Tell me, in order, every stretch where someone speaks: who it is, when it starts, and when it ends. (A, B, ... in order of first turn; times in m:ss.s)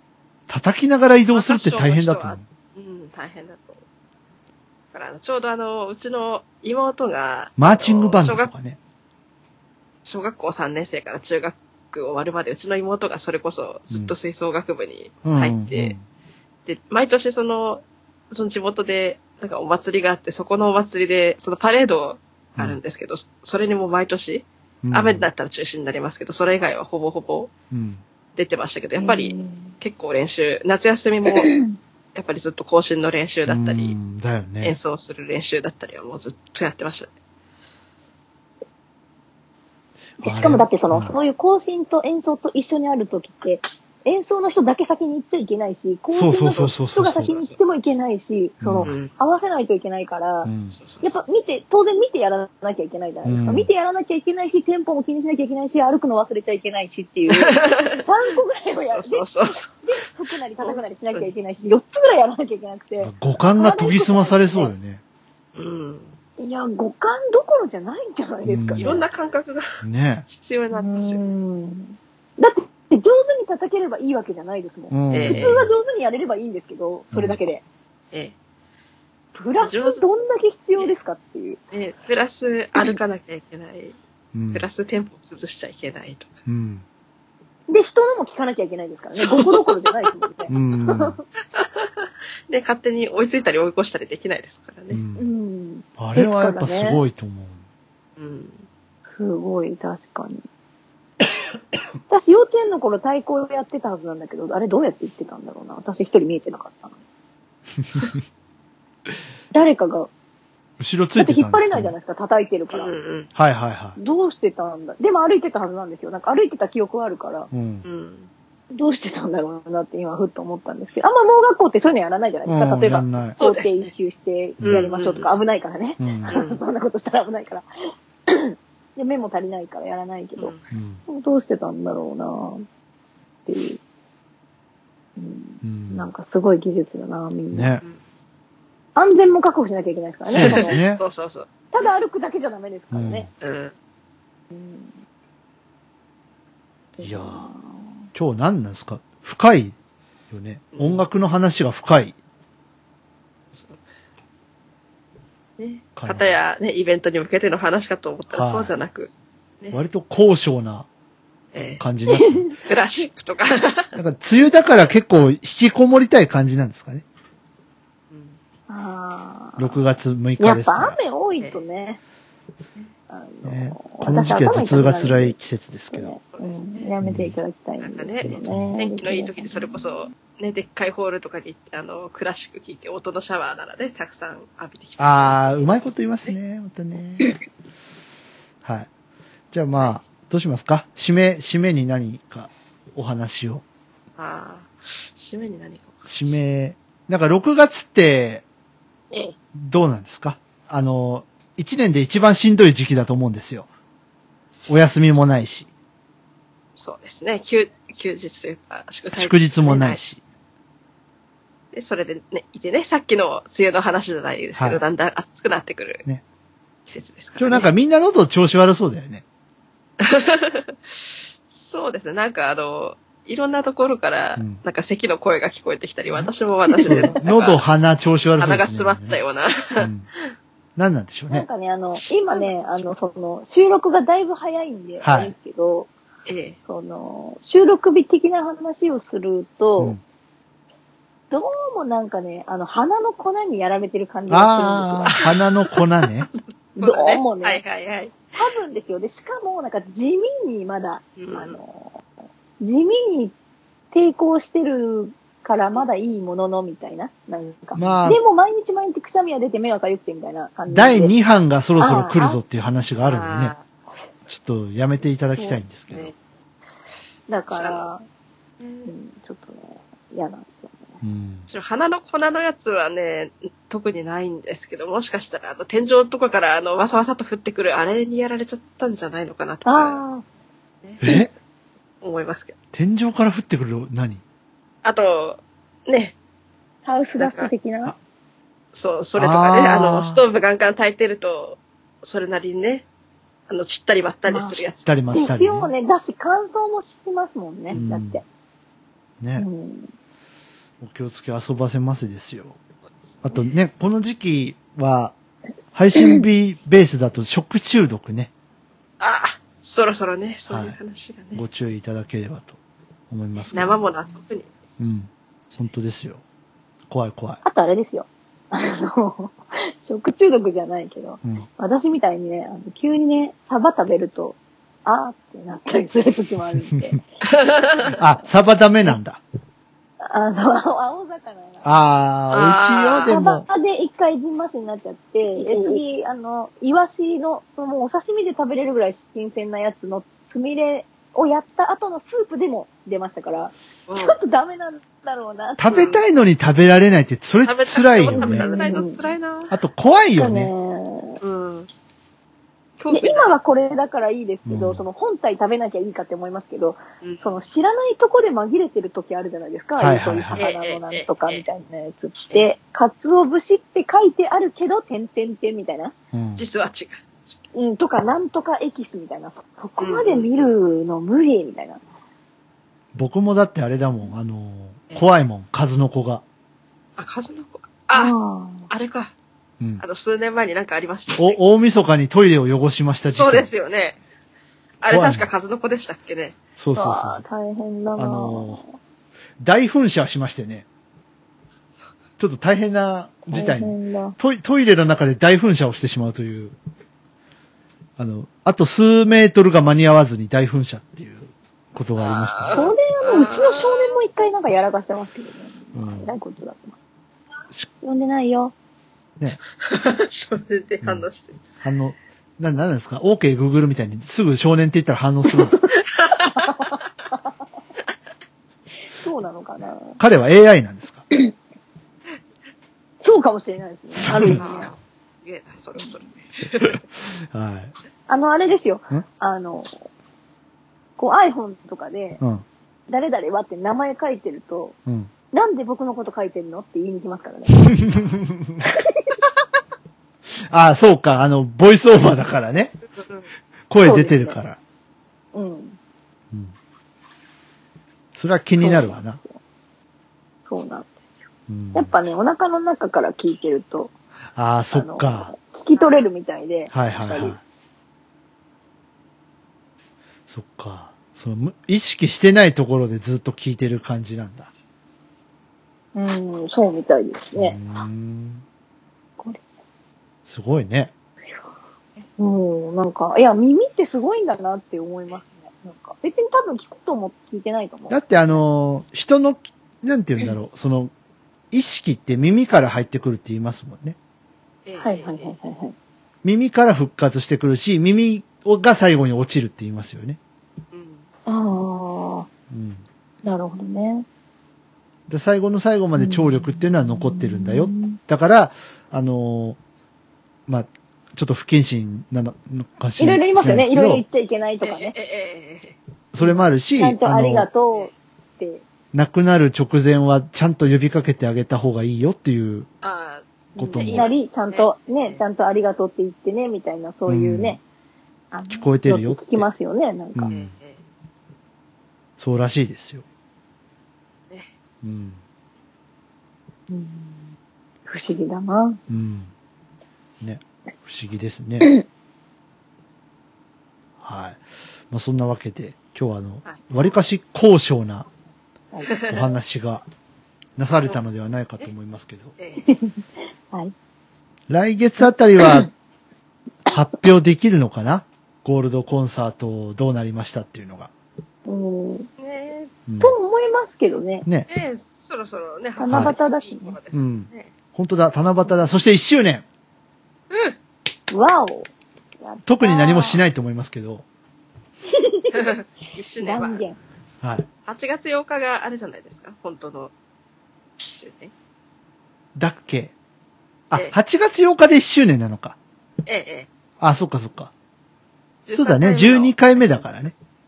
0:00.5-0:02.4 A
0:01.3-0:03.8 B
0:04.9-0:08.5 B
0:07.6-0:08.8 A
0:10.0-0:15.9 B
0:15.2-0:16.0 A
0:16.6-0:27.5 B
0:24.8-0:25.3 A
0:27.7-0:28.0 A
0:28.4-0:31.5 B
0:29.0-0:29.7 C
0:31.3-0:31.8 C
0:32.1-0:34.0 B
0:33.5-0:34.8 A
0:34.6-0:37.1 B
0:40.2-0:41.1 A
0:40.2-0:50.5 C
0:46.1-0:47.3 A
0:47.3-0:47.5 B
0:48.6-0:48.9 A
0:48.8-0:49.1 B
0:50.4-0:50.8 A
0:50.7-0:51.1 B
0:51.0-1:04.7 C
0:53.2-0:53.7 A
0:57.3-0:58.0 B
0:58.8-0:59.7 B
1:00.6-1:01.3 B
1:03.0-1:05.0 A
1:05.6-1:06.1 B
1:06.4-1:09.0 C
1:08.4-1:09.0 A
1:08.8-1:09.6 B
1:09.8-1:10.2 A
1:10.3-1:11.2 B
1:10.7-1:17.6 C
1:14.9-1:15.7 A
1:15.1-1:15.6 B
1:17.1-1:17.4 A
1:19.3-1:21.6 C
1:19.6-1:20.0 B
1:21.7-1:24.0 B
1:24.3-1:24.7 A
1:24.5-1:26.3 B
1:26.4-1:26.8 A
1:27.7-1:31.2 C
1:29.2-1:29.9 B
1:30.5-1:31.2 A
1:31.5-1:35.0 B
1:34.9-1:35.3 A
1:35.2-1:37.0 C
1:36.0-1:37.6 A
1:38.2-1:38.6 B
1:39.1-1:40.4 C
1:42.1-1:47.0 C
1:47.8-1:48.2 A
1:49.5-1:50.1 C
1:50.8-1:51.9 A
1:51.2-1:52.9 C
1:52.7-1:53.3 B
1:53.3-1:54.0 A
1:54.0-1:57.5 C
1:57.5-1:57.8 A
1:57.8-1:58.3 B
1:58.7-2:07.6 C
2:02.4-2:03.4 A
2:03.4-2:03.9 B
2:04.6-2:04.9 A
2:04.6-2:05.3 B
2:06.0-2:06.3 A
2:06.3-2:06.6 B
2:08.3-2:10.5 C
2:10.7-2:11.0 A
2:11.1-2:12.6 C
2:13.5-2:13.8 C
2:15.2-2:17.7 C
2:15.6-2:16.1 A
2:17.5-2:17.8 A
2:18.9-2:20.8 C
2:20.3-2:21.0 A
2:20.3-2:21.9 B
2:21.7-2:23.3 C
2:22.9-2:23.3 A
2:23.4-2:23.7 B
2:24.5-2:24.9 C
2:27.0-2:27.9 C
2:27.0-2:27.5 A
2:28.1-2:29.7 A
2:30.3-2:32.2 A
2:30.7-2:31.0 B
2:33.5-2:33.8 B
2:35.6-2:39.1 B
2:36.0-2:36.3 A
2:38.3-2:38.7 A
2:39.7-2:40.9 A
2:41.5-2:41.8 B
2:41.8-2:42.4 A
2:42.1-2:42.5 C
2:42.6-2:43.9 B
2:44.0-2:47.0 A
2:48.1-2:48.4 B
2:48.7-2:49.8 C
2:49.6-2:51.0 A
2:50.4-2:52.0 C
2:53.1-2:55.4 C
2:53.4-2:56.2 A
2:55.9-3:00.0 C
2:56.3-2:56.9 B
2:57.0-2:57.4 A
2:57.8-3:06.3 B
2:58.2-2:58.8 A
3:05.0-3:07.3 A
3:09.5-3:13.6 A
3:09.7-3:10.0 B
3:14.2-3:16.3 B
3:16.1-3:18.4 A
3:19.5-3:23.7 A
3:24.7-3:25.7 A
3:26.8-3:30.1 B
3:29.1-3:30.2 A
3:31.7-3:36.0 B
3:34.6-3:34.8 A
3:36.9-3:37.7 B
3:37.4-3:39.2 A
3:40.0-3:41.0 B
3:41.5-3:47.6 B
3:46.7-3:47.1 C
3:46.8-3:49.2 A
3:48.4-3:49.9 B
3:49.8-3:50.1 A
3:50.8-3:51.4 A
3:51.3-3:55.9 C
3:52.3-3:52.6 B
3:55.0-3:55.3 A
3:56.2-3:56.6 B
3:56.7-4:00.0 C
4:01.3-4:05.2 C
4:04.3-4:06.3 A
4:05.2-4:08.3 B
4:06.8-4:07.6 C
4:08.3-4:12.0 C
4:11.2-4:11.6 B
4:12.6-4:13.3 C
4:13.9-4:21.1 C
4:17.8-4:18.2 A
4:20.7-4:23.5 A
4:21.8-4:22.4 C
4:23.0-4:23.6 B
4:24.3-4:26.1 A
4:27.3-4:28.0 C
4:27.5-4:27.8 B
4:28.6-4:28.9 B
4:28.8-4:31.0 C
4:31.0-4:31.5 A
4:31.5-4:40.0 B
4:39.6-4:40.2 C
4:41.0-4:41.3 A
4:42.0-4:42.6 B
4:42.7-4:44.2 A
4:44.8-4:46.2 B
4:46.8-4:47.9 C
4:47.2-4:47.5 B
4:48.7-4:52.8 B
4:49.2-4:50.2 A
4:53.5-4:54.9 B
4:54.2-4:58.2 C
4:54.8-4:55.7 A
4:57.7-4:58.2 A
4:59.2-4:59.5 A
4:59.4-4:59.9 C
5:00.8-5:02.6 A
5:03.2-5:03.6 B
5:03.2-5:05.1 A
5:05.7-5:08.3 A
5:09.0-5:11.4 B
5:10.5-5:10.8 A
5:11.3-5:12.6 A
5:13.1-5:13.8 A
5:13.5-5:14.5 B
5:14.8-5:16.2 A
5:16.9-5:17.4 A
5:17.4-5:27.0 C
5:27.3-5:28.0 B
5:27.9-5:29.2 A
5:30.0-5:31.7 C
5:31.6-5:33.4 A
5:32.3-5:33.1 B
5:33.0-5:45.7 C
5:43.9-5:44.2 B
5:45.6-5:48.5 A
5:45.7-5:46.0 B
5:47.4-5:49.5 B
5:48.1-5:49.1 C
5:49.5-5:50.5 A
5:50.1-5:51.2 C
5:51.2-5:51.7 B
5:52.8-5:53.3 B
5:52.9-6:05.9 C
5:54.4-5:54.8 A
5:57.0-5:57.3 B
5:59.8-6:00.4 A
6:00.4-6:01.4 B
6:06.1-6:06.4 A
6:06.4-6:07.0 B
6:07.5-6:11.8 C
6:09.8-6:10.3 B
6:12.9-6:16.2 A
6:17.0-6:18.1 B
6:17.9-6:18.7 C
6:18.7-6:19.1 B
6:19.8-6:21.4 B
6:21.2-6:23.5 A
6:23.1-6:24.0 B
6:24.8-6:26.4 B
6:24.9-6:25.3 A
6:26.6-6:27.2 A
6:26.7-6:28.8 C
6:28.0-6:28.6 A
6:29.4-6:30.6 A
6:32.2-6:36.5 A
6:33.3-6:34.2 C
6:38.0-6:42.7 A
6:42.0-6:44.0 B
6:42.5-6:46.8 C
6:45.7-6:46.1 A
6:47.8-6:48.5 C
6:49.5-6:51.4 B
6:51.6-6:55.6 A
6:55.5-6:56.8 C
6:55.9-6:56.5 B
6:58.9-7:00.0 C
7:00.0-7:01.0 A
7:03.0-7:04.7 C
7:03.9-7:04.5 A
7:04.3-7:06.8 B
7:06.6-7:07.7 A
7:08.1-7:09.8 C
7:11.0-7:12.2 C
7:12.2-7:12.4 A
7:12.9-7:14.8 C
7:15.3-7:17.8 C
7:17.6-7:18.6 A
7:18.6-7:19.2 C
7:20.3-7:22.8 A
7:23.0-7:23.2 B
7:23.7-7:24.6 A
7:23.8-7:24.4 C
7:25.3-7:25.8 C
7:28.1-7:29.2 A
7:28.6-7:29.4 C
7:30.5-7:31.1 C
7:31.5-7:31.9 A
7:31.7-7:33.9 C
7:34.3-7:35.3 A
7:34.7-7:37.4 C
7:35.7-7:36.1 B
7:36.7-7:37.4 A
7:40.3-7:44.5 A
7:45.9-7:47.6 C
7:47.3-7:48.4 A
7:50.2-7:50.9 A
7:52.2-7:58.0 C
7:57.9-8:00.9 A
8:01.5-8:04.0 A
8:04.6-8:05.3 B
8:04.8-8:05.7 C
8:06.2-8:10.2 A
8:10.7-8:11.1 B
8:11.2-8:12.3 C
8:12.5-8:12.8 A
8:13.2-8:14.0 C
8:15.1-8:19.6 A
8:16.0-8:18.0 C
8:20.5-8:24.0 A
8:23.0-8:24.9 C
8:24.6-8:25.8 B
8:26.1-8:27.5 A
8:26.2-8:28.6 C
8:28.9-8:32.7 A
8:32.8-8:35.2 B
8:33.6-8:37.6 C
8:33.6-8:34.1 A
8:37.1-8:37.6 A
8:38.3-8:40.3 C
8:38.5-8:39.5 A
8:40.1-8:40.5 A
8:40.3-8:40.8 B
8:42.2-8:43.0 A
8:44.8-8:45.2 A
8:46.7-8:47.3 C
8:47.8-8:48.8 C
8:48.9-8:49.3 A
8:50.2-8:51.7 A
8:54.0-8:58.1 A
8:58.7-8:59.0 C
8:58.9-8:59.2 B
8:59.0-8:59.8 A
9:00.6-9:02.3 A
9:02.4-9:02.7 B
9:02.6-9:03.7 C
9:04.5-9:05.7 A
9:05.4-9:05.7 C
9:06.7-9:10.9 A
9:11.4-9:12.1 C
9:12.2-9:12.7 B
9:12.9-9:13.1 A
9:13.0-9:14.3 C
9:14.5-9:17.5 B
9:15.8-9:16.8 C
9:15.9-9:16.2 A
9:16.9-9:19.4 A
9:20.3-9:20.6 B
9:21.1-9:21.7 C
9:22.2-9:23.2 C
9:22.4-9:24.0 A
9:24.9-9:25.5 C
9:25.3-9:26.6 B
9:26.2-9:26.8 C
9:27.2-9:27.5 A
9:27.6-9:29.9 B
9:30.8-9:31.3 B
9:32.4-9:32.9 A
9:33.7-9:35.6 A
9:36.0-9:36.5 B
9:36.8-9:37.5 A
9:38.5-9:39.9 B
9:38.5-9:40.1 A